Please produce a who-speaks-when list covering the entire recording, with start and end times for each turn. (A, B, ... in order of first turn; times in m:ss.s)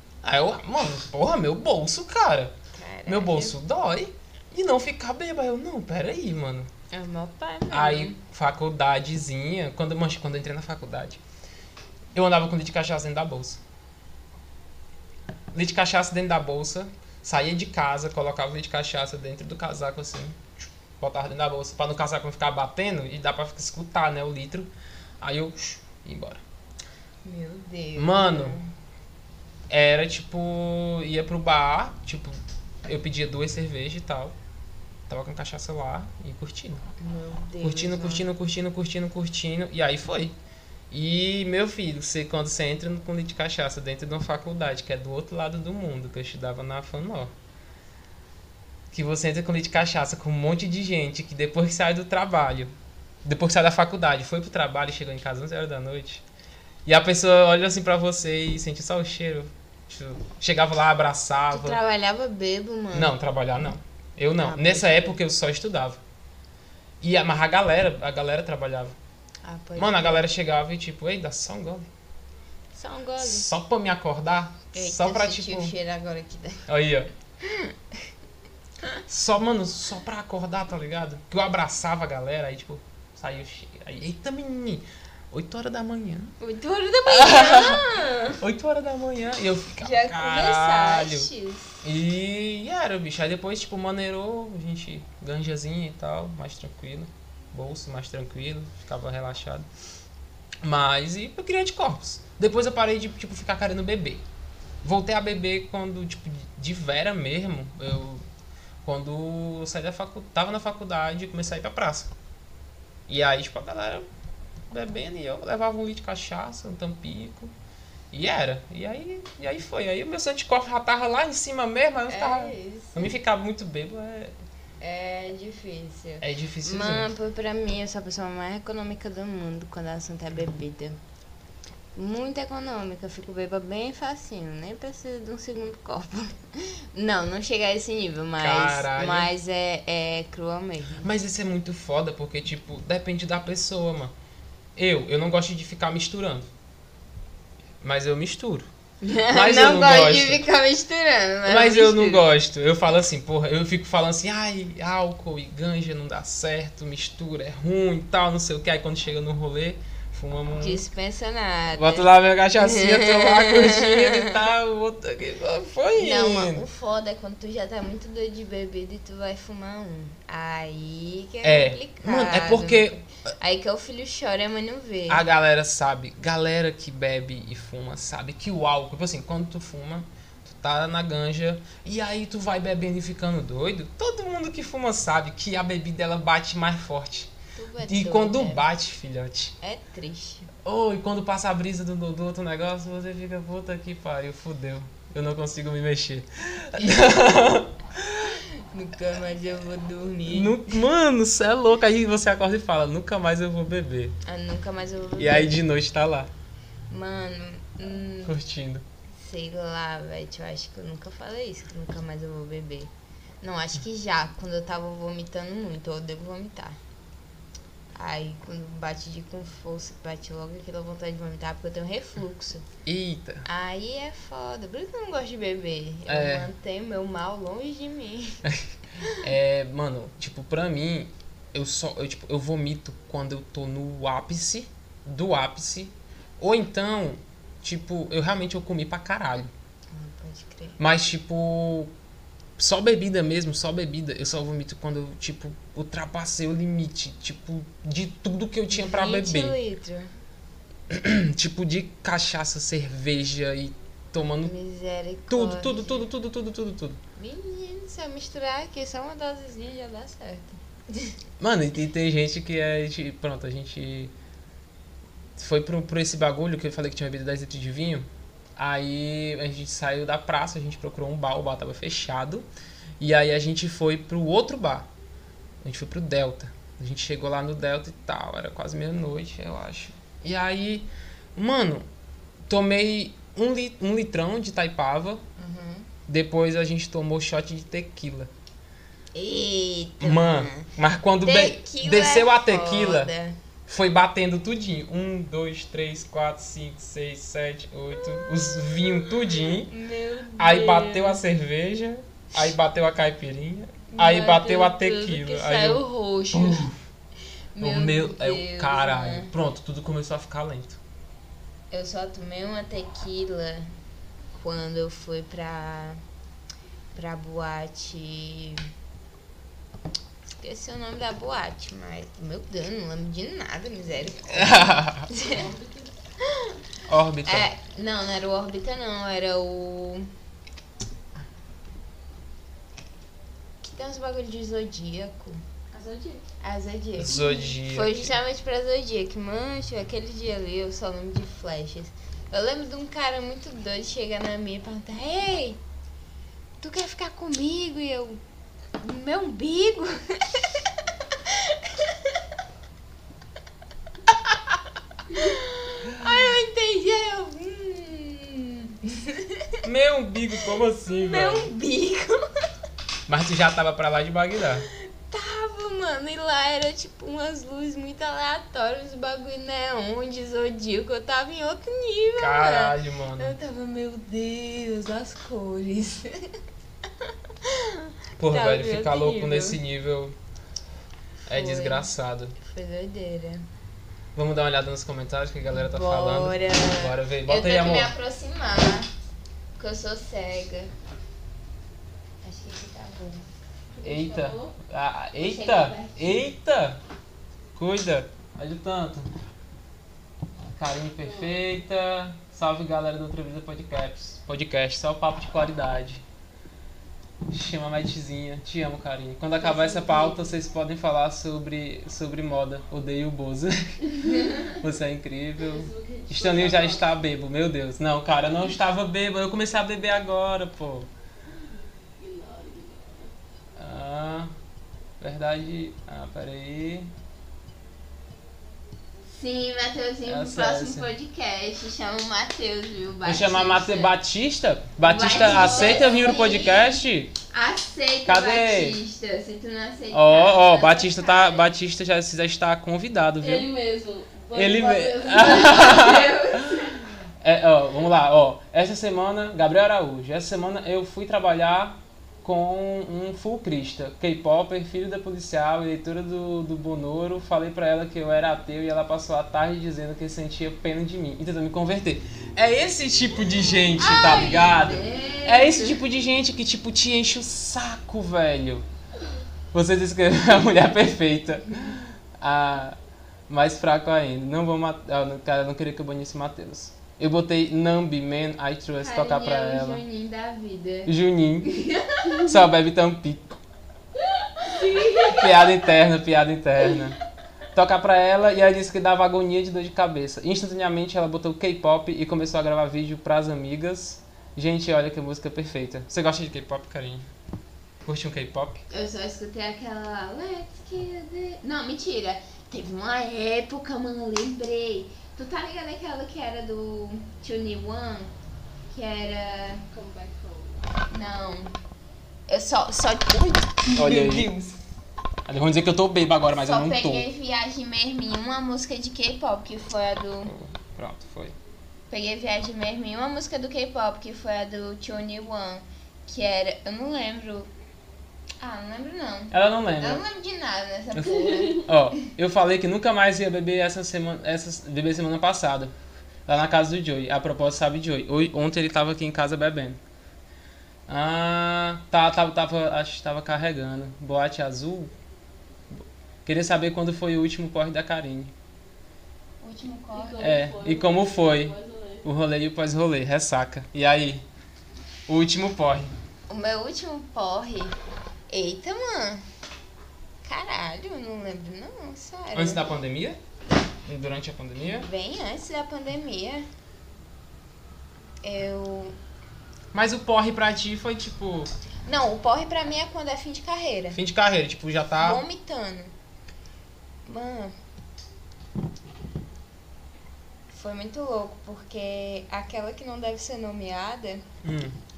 0:00.2-0:02.6 A
0:02.7-0:03.6 B
0:03.1-0:06.7 A
0:06.9-0:08.2 B
0:07.7-0:11.2 A
0:12.2-0:13.6 A
0:15.5-0:24.7 A
0:25.2-0:26.4 A
0:27.2-0:28.7 B
0:28.0-0:28.6 A
0:29.7-0:34.4 A
0:35.1-0:36.8 A
0:37.0-0:38.3 B
0:37.6-0:40.4 A
0:40.9-0:47.3 A
0:48.9-0:52.7 A
0:53.2-0:56.2 A
0:56.9-1:01.8 A
1:01.5-1:03.1 B
1:02.9-1:06.0 A
1:04.4-1:05.2 B
1:07.0-1:09.0 A
1:09.4-1:10.2 B
1:09.8-1:11.9 A
1:12.8-1:13.5 B
1:13.2-1:15.7 A
1:14.7-1:16.7 B
1:16.7-1:17.1 A
1:17.4-1:17.7 B
1:19.1-1:26.3 A
1:26.4-1:28.4 B
1:27.1-1:31.3 A
1:29.8-1:31.8 B
1:31.8-1:39.7 A
1:40.6-1:44.2 A
1:44.8-1:48.2 A
1:48.8-1:52.1 A
1:53.1-1:54.1 A
1:54.7-1:57.5 A
1:58.1-2:04.4 A
2:02.1-2:03.1 B
2:04.8-2:11.0 B
2:06.2-2:07.1 A
2:12.0-2:21.1 B
2:18.4-2:19.3 A
2:21.0-2:24.1 A
2:24.8-2:26.5 A
2:27.8-2:28.7 A
2:29.0-2:32.2 B
2:29.3-2:30.4 A
2:31.5-2:40.8 A
2:40.6-2:42.1 B
2:41.8-2:46.7 A
2:42.6-2:44.4 B
2:46.0-2:55.2 B
2:51.4-2:53.0 A
2:55.1-3:07.3 A
3:07.6-3:08.6 B
3:07.8-3:09.6 A
3:09.6-3:10.5 B
3:10.6-3:18.4 A
3:18.6-3:20.8 B
3:20.3-3:24.2 A
3:24.2-3:25.6 B
3:25.2-3:26.3 A
3:26.9-3:28.4 B
3:28.2-3:28.8 A
3:29.2-3:36.8 B
3:38.0-3:42.7 B
3:42.8-3:43.5 A
3:43.4-3:48.4 B
3:46.1-3:46.5 A
3:48.4-3:59.5 A
3:59.9-4:00.8 B
4:00.8-4:01.9 A
4:02.6-4:09.6 A
4:08.7-4:10.1 B
4:10.9-4:14.5 A
4:14.4-4:16.0 B
4:15.3-4:17.0 A
4:17.2-4:21.1 B
4:21.4-4:24.1 A
4:25.4-4:32.5 A
4:33.0-4:34.9 A
4:35.6-4:41.9 A
4:42.5-4:45.2 A
4:45.4-4:45.9 B
4:46.1-4:48.3 A
4:49.2-4:50.7 B
4:50.0-4:53.1 A
4:51.2-4:53.4 B
4:53.7-4:59.7 A
4:58.0-5:01.1 B
5:00.4-5:06.8 A
5:00.6-5:01.1 C
5:03.9-5:06.7 B
5:07.6-5:09.3 B
5:07.6-5:10.8 A
5:11.7-5:13.7 B
5:14.3-5:16.0 B
5:16.9-5:18.7 B
5:20.4-5:25.5 B
5:24.3-5:25.1 A
5:25.2-5:25.9 C
5:26.2-5:26.5 B
5:26.9-5:27.5 A
5:27.2-5:30.1 B
5:33.6-5:35.4 B
5:35.7-5:36.2 C
5:36.4-5:45.6 B
5:37.0-5:38.2 A
5:46.6-5:48.2 B
5:48.8-5:50.6 B
5:51.3-5:52.2 B
5:55.1-5:59.5 B
5:59.6-6:01.5 A
6:00.9-6:02.4 B
6:03.1-6:04.6 A
6:04.7-6:16.3 B
6:12.2-6:13.4 A
6:17.4-6:19.6 B
6:18.2-6:20.2 A
6:21.3-6:23.5 B
6:21.3-6:22.4 A
6:24.2-6:28.0 A
6:25.5-6:28.9 B
6:29.6-6:30.7 B
6:32.2-6:33.2 B
6:33.8-6:34.6 C
6:33.8-6:36.8 A
6:35.2-6:36.3 B
6:37.6-6:39.1 A
6:40.6-6:46.0 A
6:41.0-6:41.4 C
6:47.3-6:53.9 A
6:49.5-6:49.8 B
6:49.7-6:50.2 C
6:54.0-6:54.6 B
6:54.1-6:54.5 C
6:54.5-7:00.9 A
6:55.4-6:56.9 C
7:02.0-7:03.1 C
7:03.6-7:04.3 A
7:05.0-7:06.9 A
7:09.1-7:13.9 B
7:10.1-7:10.9 A
7:13.0-7:17.1 A
7:14.8-7:21.4 B
7:15.3-7:15.9 C
7:18.1-7:18.8 A
7:19.9-7:23.5 A
7:23.2-7:25.9 C
7:24.3-7:26.6 A
7:24.9-7:26.9 B
7:27.2-7:48.6 A
7:43.8-7:45.8 B
7:49.5-7:52.8 A
7:53.3-7:59.8 A
7:58.8-8:02.2 B
8:00.9-8:01.5 A
8:02.2-8:03.4 A
8:04.4-8:05.0 B
8:04.4-8:05.4 C
8:05.0-8:07.0 A
8:07.5-8:17.1 A
8:17.9-8:18.6 A
8:18.7-8:28.1 B
8:28.7-8:29.7 B
8:29.7-8:30.7 C
8:30.9-8:31.5 B
8:32.3-8:34.6 B
8:33.8-8:34.3 A
8:35.3-8:37.1 A
8:36.3-8:40.3 B
8:40.3-8:41.4 A
8:41.9-8:47.5 B
8:48.4-8:51.7 B
8:49.3-8:50.0 A
8:50.9-8:55.7 A
8:56.3-8:59.8 A
9:00.9-9:04.9 A
9:05.7-9:08.3 A
9:09.4-9:10.3 B
9:09.9-9:12.1 C
9:10.2-9:14.2 A
9:15.1-9:15.9 A
9:16.3-9:17.8 B
9:18.3-9:19.2 B
9:20.2-9:22.6 B
9:22.4-9:23.2 A
9:23.9-9:24.9 A
9:24.8-9:26.5 B
9:28.2-9:29.0 B
9:29.7-9:31.5 A
9:31.9-9:34.0 B
9:33.9-9:35.2 A
9:35.0-9:35.9 B
9:37.1-9:37.6 B
9:40.5-9:44.2 B
9:44.4-9:44.8 A